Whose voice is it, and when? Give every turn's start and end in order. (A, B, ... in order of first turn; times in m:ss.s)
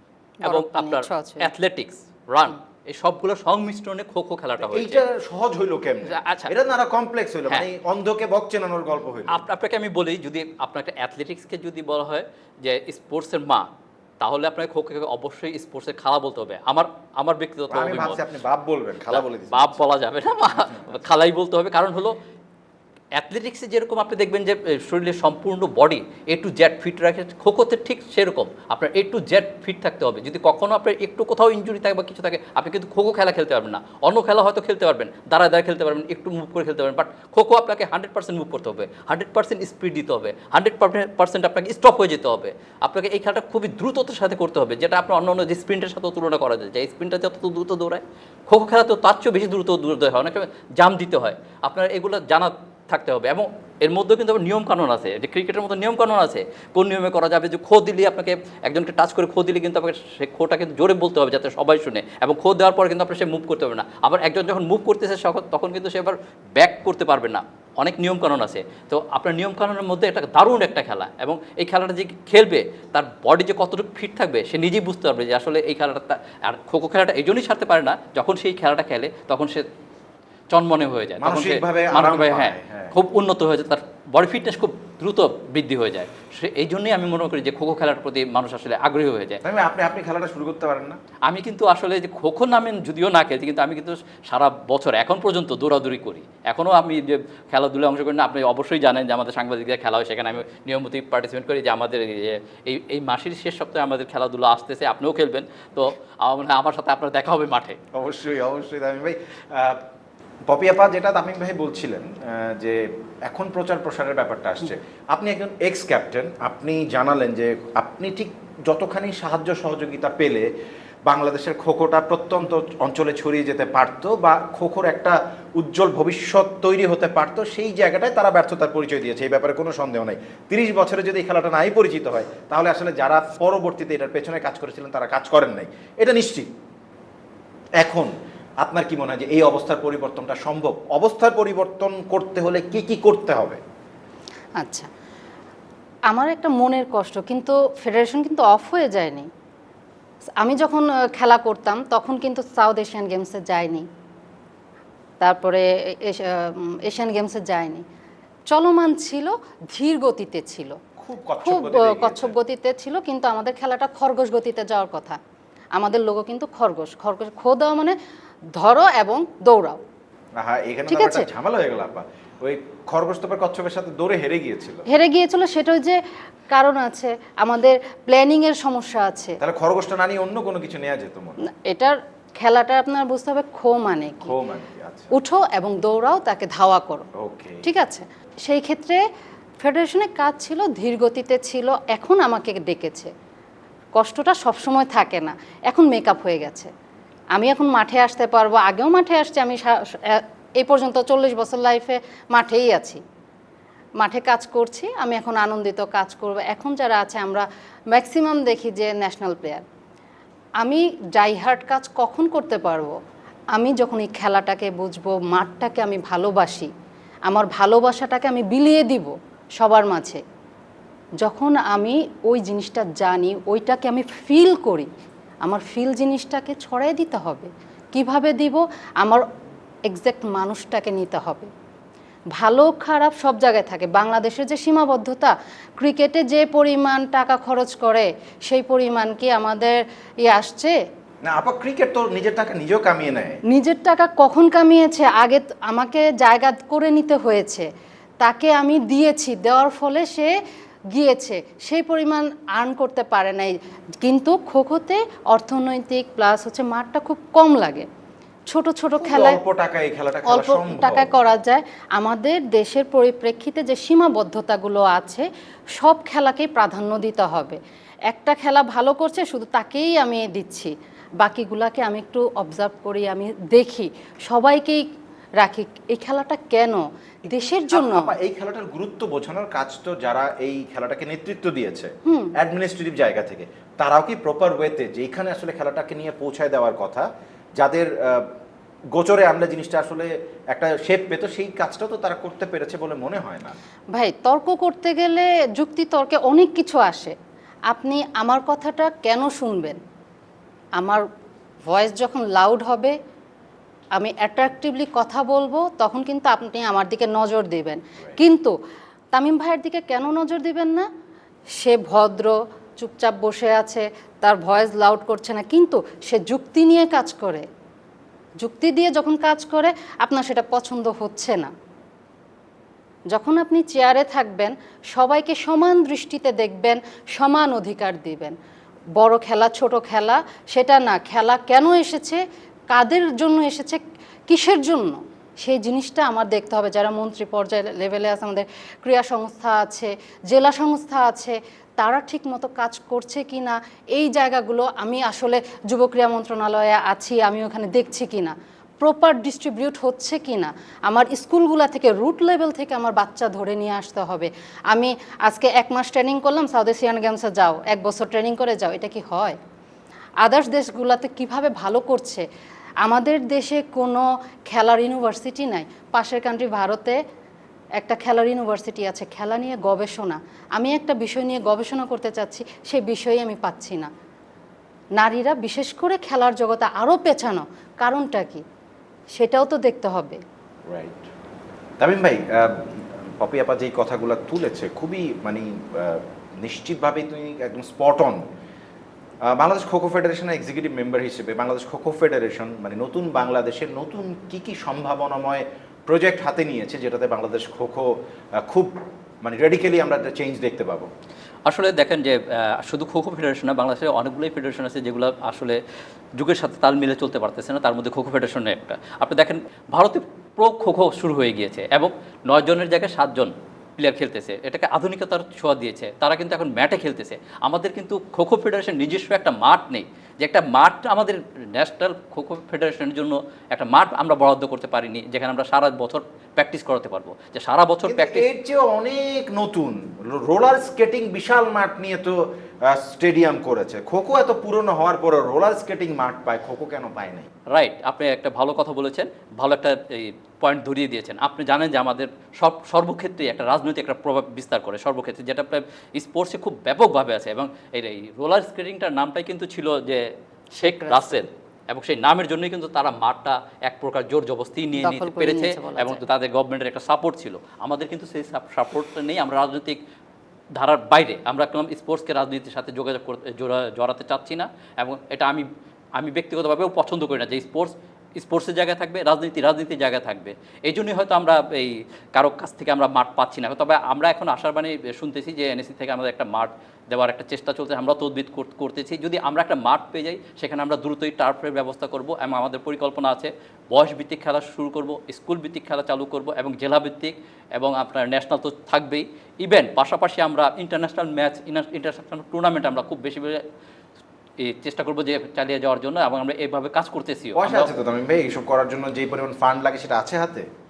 0:00.4-0:01.5 A
0:00.4-0:05.0 B
0:04.6-0:09.4 C
0:06.1-0:06.5 B
0:09.3-0:13.6 B
0:14.2-0:18.2 B
0:17.7-0:19.8 C
0:19.1-0:22.2 B
0:23.2-1:19.6 B
1:20.5-1:29.4 B
1:21.2-1:22.9 C
1:29.4-1:31.0 C
1:31.3-1:47.8 B
1:47.9-1:49.8 C
1:50.5-2:00.4 C
2:01.1-2:16.5 C
2:17.8-2:23.6 C
2:24.6-2:24.9 A
2:26.1-2:29.3 A
2:30.4-2:33.8 A
2:35.2-2:37.8 A
2:38.5-2:40.7 A
2:41.0-2:42.3 C
2:41.4-2:45.2 A
2:45.8-2:48.0 A
2:48.6-2:49.8 A
2:50.4-2:54.8 C
2:50.9-2:51.3 A
2:54.9-2:56.0 A
2:56.5-2:59.4 A
2:59.4-3:01.4 C
3:01.4-3:04.3 A
3:04.2-3:05.1 C
3:05.1-3:07.1 A
3:07.2-3:07.7 C
3:07.6-3:09.0 A
3:09.6-3:13.1 A
3:13.9-3:16.7 A
3:17.3-3:23.0 A
3:24.0-3:29.6 A
3:30.6-3:32.9 A
3:33.5-3:36.7 A
3:37.3-3:40.2 A
3:41.2-3:44.9 A
3:45.4-3:49.2 A
3:49.9-3:51.5 A
3:52.4-4:00.8 A
4:01.2-4:03.4 C
4:03.5-4:07.7 A
4:08.2-4:10.3 A
4:10.9-4:17.8 A
4:18.5-4:19.4 A
4:19.0-4:21.1 C
4:20.3-4:25.2 A
4:25.8-4:34.8 A
4:35.4-4:38.1 A
4:37.7-4:47.1 C
4:42.0-4:42.3 A
4:47.6-4:48.3 C
4:48.9-4:53.6 C
4:53.9-4:57.1 A
4:57.7-4:59.8 A
5:00.8-5:01.0 A
5:01.7-5:02.9 A
5:04.0-5:08.5 A
5:09.1-5:10.8 A
5:11.6-5:17.4 A
5:18.4-5:21.5 A
5:23.1-5:28.3 A
5:29.0-5:59.4 A
6:00.2-6:02.2 A
6:02.8-6:07.0 A
6:07.8-6:13.9 A
6:15.0-6:18.4 A
6:19.2-6:20.2 A
6:20.7-6:21.0 C
6:21.8-6:28.2 C
6:29.3-6:37.9 C
6:38.4-6:40.9 C
6:41.5-6:45.6 B
6:46.2-7:08.2 B
7:07.8-7:17.3 C
7:17.5-7:30.0 B
7:30.6-7:31.2 A
7:30.6-7:39.8 B
7:34.8-7:36.0 A
7:40.6-7:45.4 B
7:46.0-8:13.4 B
8:14.4-8:17.7 B
8:17.4-8:20.5 C